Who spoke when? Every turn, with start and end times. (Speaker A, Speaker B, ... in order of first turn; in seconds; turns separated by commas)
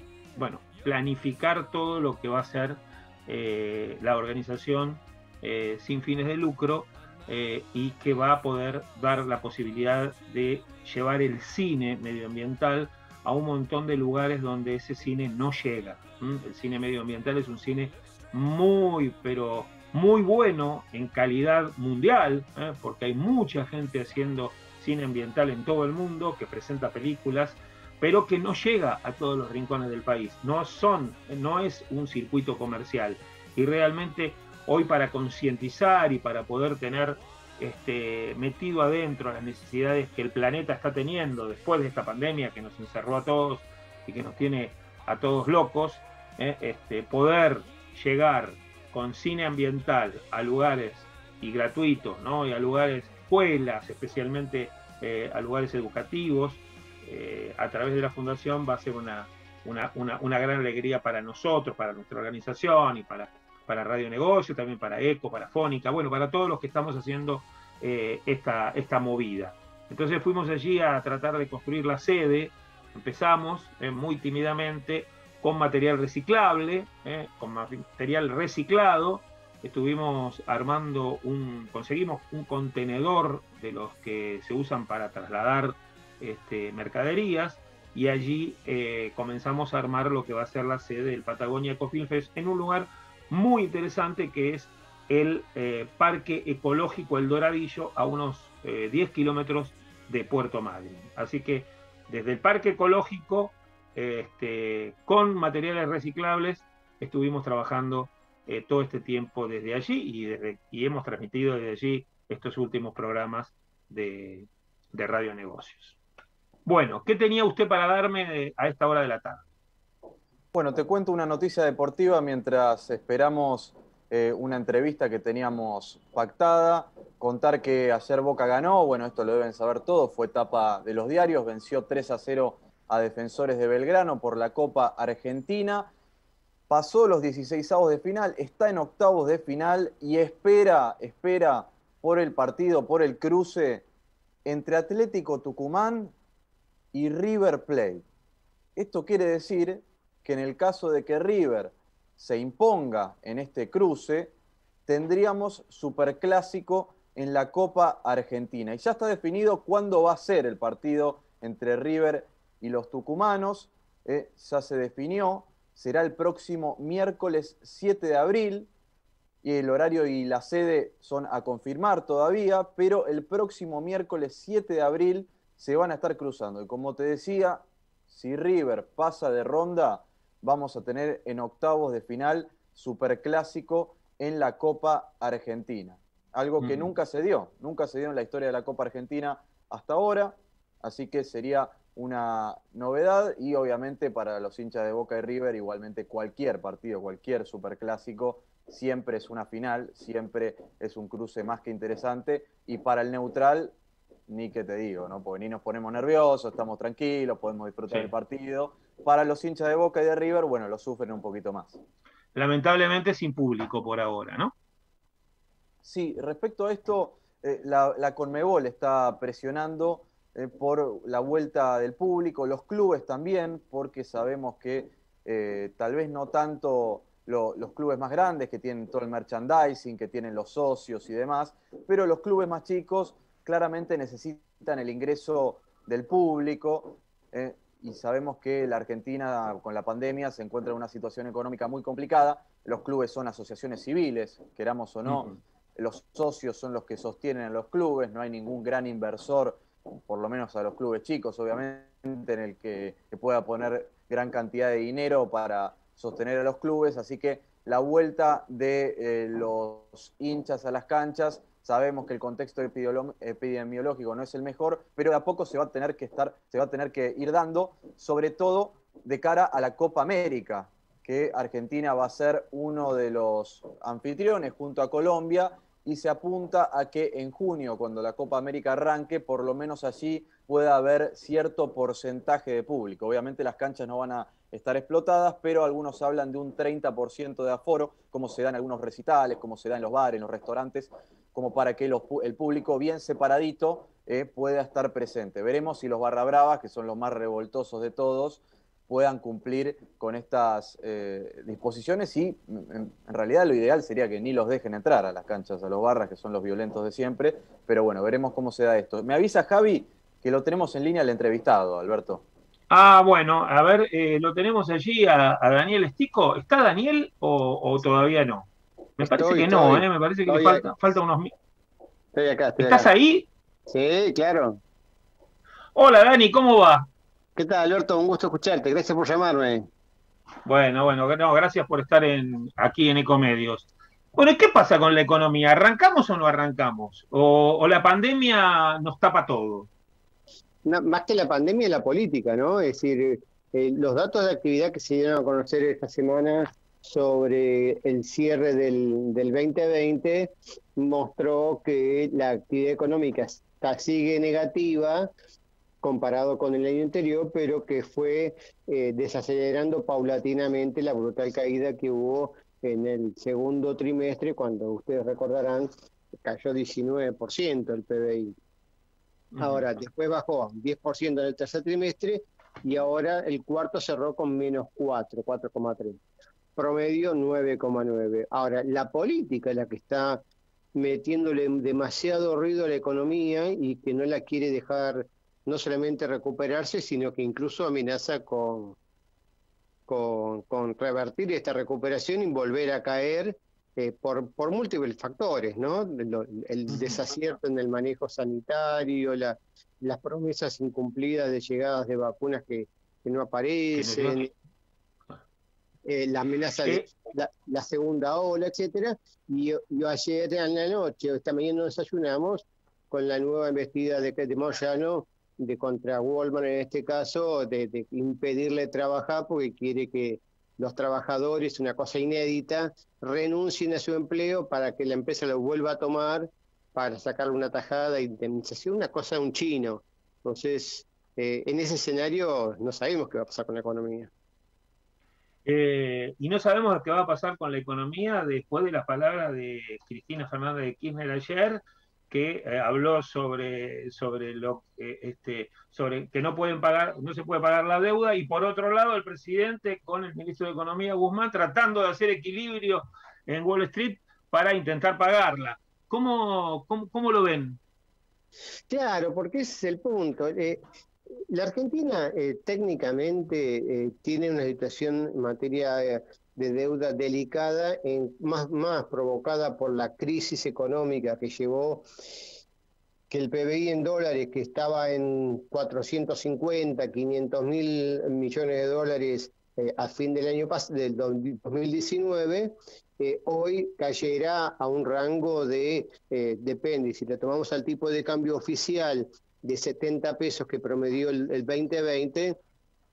Speaker A: 0.4-116.0, Speaker A: 116.7-119.4, Speaker B: 120.5-135.9, Speaker B: 136.7-143.8, Speaker B: 144.4-146.1, Speaker B: 146.9-148.1, Speaker B: 148.8-154.3, Speaker B: 154.9-168.7, Speaker B: 169.4-203.8, Speaker A: 186.6-186.9, Speaker B: 204.3-211.8, Speaker A: 212.3-214.5, Speaker B: 215.8-312.2, Speaker A: 312.7-318.5, Speaker C: 319.0-320.7, Speaker A: 319.0-321.3, Speaker C: 322.1-322.9, Speaker A: 322.6-323.3, Speaker C: 323.7-324.6, Speaker A: 325.8-326.9, Speaker C: 327.4-329.7, Speaker A: 330.5-339.7, Speaker C: 340.6-355.1, Speaker C: 355.8-365.7, Speaker C: 366.2-368.4, Speaker A: 369.4-369.7, Speaker C: 369.4-376.0, Speaker C: 376.6-380.2, Speaker C: 380.8-388.8, Speaker C: 389.9-404.3, Speaker A: 403.8-404.2, Speaker C: 405.9-434.1, Speaker A: 435.5-457.6, Speaker C: 458.7-460.6, Speaker C: 461.3-471.9, Speaker C: 473.1-492.4